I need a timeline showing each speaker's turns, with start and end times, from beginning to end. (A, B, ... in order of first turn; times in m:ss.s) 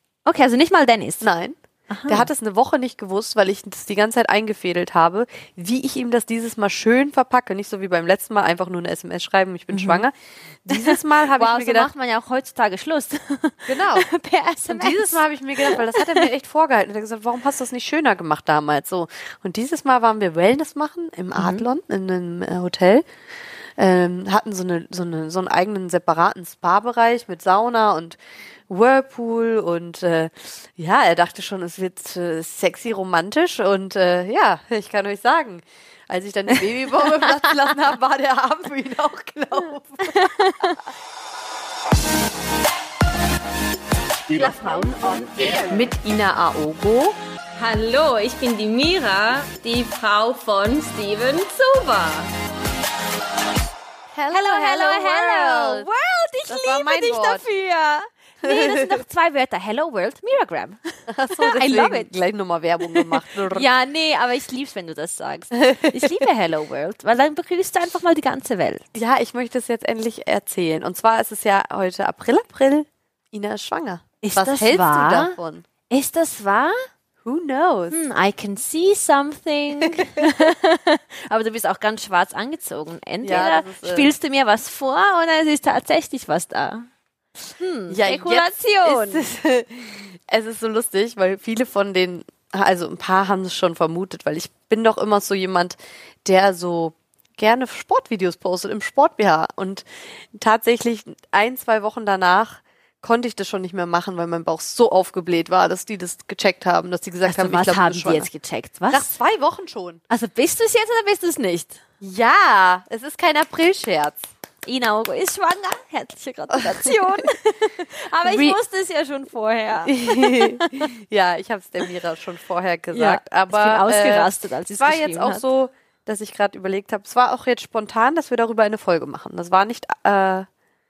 0:00.3-0:01.3 A
0:01.2-0:01.6 B
0:01.9-0:02.3 A
0:02.1-0:10.1 B
0:09.7-0:10.0 A
0:10.6-0:11.9 B
0:10.7-0:16.3 A
0:13.7-0:14.1 B
0:14.7-0:23.0 B
0:21.4-0:21.6 A
0:23.8-0:28.2 B
0:28.7-0:40.8 B
0:40.1-0:40.8 A
0:44.3-0:46.1 C
0:45.8-0:47.1 B
0:47.6-0:52.3 C
0:54.1-0:55.9 B
0:54.3-1:02.1 A
0:56.5-0:57.4 B
0:58.4-0:58.9 B
1:01.1-1:03.7 B
1:02.9-1:08.8 A
1:05.6-1:06.2 B
1:08.9-1:15.6 B
1:14.2-1:15.4 A
1:15.9-1:16.8 A
1:17.2-1:18.0 B
1:17.9-1:26.9 A
1:23.2-1:24.1 B
1:27.5-1:29.3 A
1:27.9-1:48.3 B
1:47.3-1:49.1 A
1:48.9-1:50.0 B
1:50.1-1:51.8 A
1:52.0-1:54.2 B
1:54.6-2:00.9 A
1:56.5-1:57.3 B
1:58.2-1:58.6 B
1:59.8-2:10.5 B
2:02.9-2:05.4 A